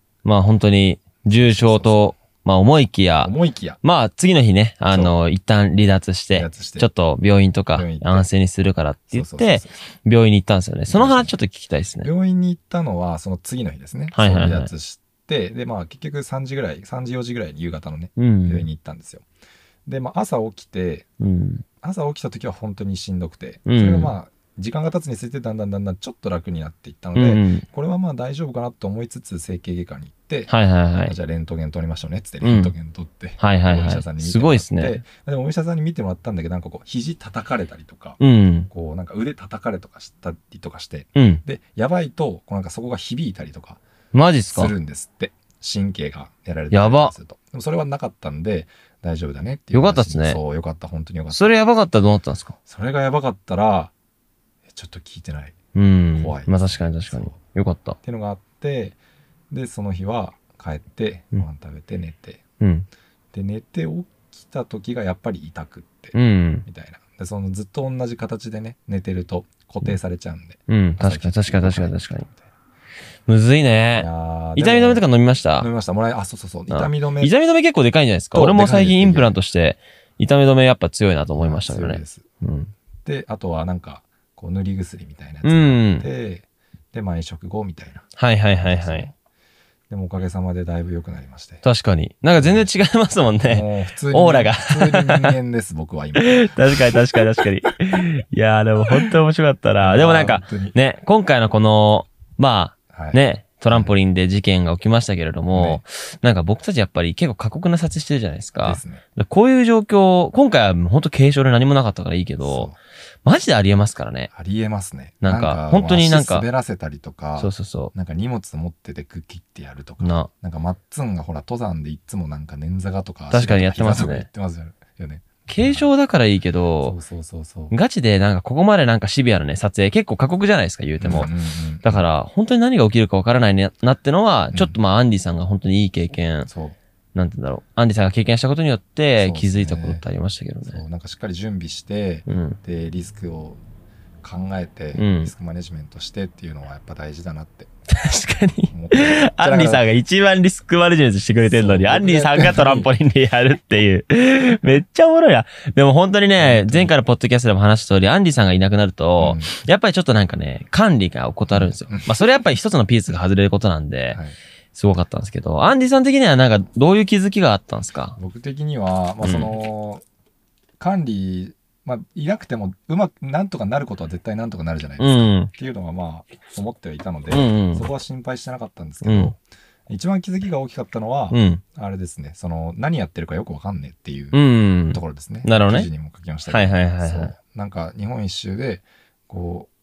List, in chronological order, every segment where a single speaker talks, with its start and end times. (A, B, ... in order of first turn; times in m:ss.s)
0:00.2-0:12.1 A
0:01.3-0:02.2 B
0:03.2-0:03.8 B
0:04.9-0:05.2 B
0:06.3-0:06.9 B
0:07.8-0:08.3 B
0:09.1-0:09.8 B
0:10.9-0:11.4 B
0:12.0-0:19.2 B
0:14.1-0:14.7 A
0:18.2-0:18.7 A
0:19.9-0:21.1 B
0:21.2-0:21.6 A
0:21.8-0:30.5 B
0:23.7-0:24.1 A
0:27.2-0:27.6 A
0:30.5-0:31.2 A
0:31.0-0:43.8 B
0:32.4-0:32.7 A
0:33.4-0:35.0 A
0:38.2-0:38.7 A
0:41.2-0:41.4 A
0:44.1-0:44.7 A
0:44.5-0:51.6 B
0:46.7-0:47.1 A
0:49.7-0:50.4 A
0:51.3-0:52.6 A
0:52.7-0:53.9 B
0:54.7-0:55.6 B
0:55.8-0:58.0 A
0:56.2-0:57.4 B
0:58.0-0:59.0 B
0:59.5-1:02.4 B
1:02.6-1:02.9 A
1:03.3-1:12.4 B
1:06.1-1:06.6 A
1:10.7-1:12.3 A
1:13.3-1:15.7 A
1:14.0-1:15.0 B
1:15.6-1:17.3 B
1:16.7-1:22.7 A
1:18.3-1:19.4 B
1:21.4-1:22.3 B
1:23.0-1:29.1 B
1:25.4-1:26.1 A
1:28.2-1:29.1 A
1:29.9-1:31.6 B
1:31.6-1:35.4 A
1:32.4-1:32.7 B
1:33.4-1:37.2 B
1:36.2-1:52.7 A
1:39.8-1:40.8 B
1:42.9-1:43.9 B
1:45.5-1:45.8 B
1:48.6-1:49.0 B
1:52.4-1:52.8 B
1:53.2-1:54.3 A
1:54.3-2:05.9 B
1:55.2-1:56.5 A
1:57.4-1:57.9 A
2:00.0-2:00.3 A
2:03.3-2:04.3 A
2:05.5-2:07.0 A
2:06.8-2:07.8 B
2:07.7-2:11.3 A
2:11.0-2:12.0 B
2:11.8-2:16.5 A
2:16.5-2:16.8 B
2:17.2-2:20.8 A
2:19.2-2:20.0 B
2:20.7-2:23.6 B
2:22.3-2:22.6 A
2:24.2-2:27.7 B
2:25.0-2:25.3 A
2:27.9-2:44.2 A
2:28.7-2:29.8 B
2:31.4-2:32.9 B
2:36.4-2:36.9 B
2:39.2-2:39.5 B
2:41.5-2:42.1 B
2:44.7-2:48.2 A
2:48.2-2:50.0 B
2:49.2-2:49.5 A
2:50.8-3:09.7 B
2:55.0-2:55.5 A
2:57.3-2:57.9 A
2:59.0-2:59.3 A
3:01.3-3:01.6 A
3:04.3-3:05.9 A
3:06.5-3:07.4 A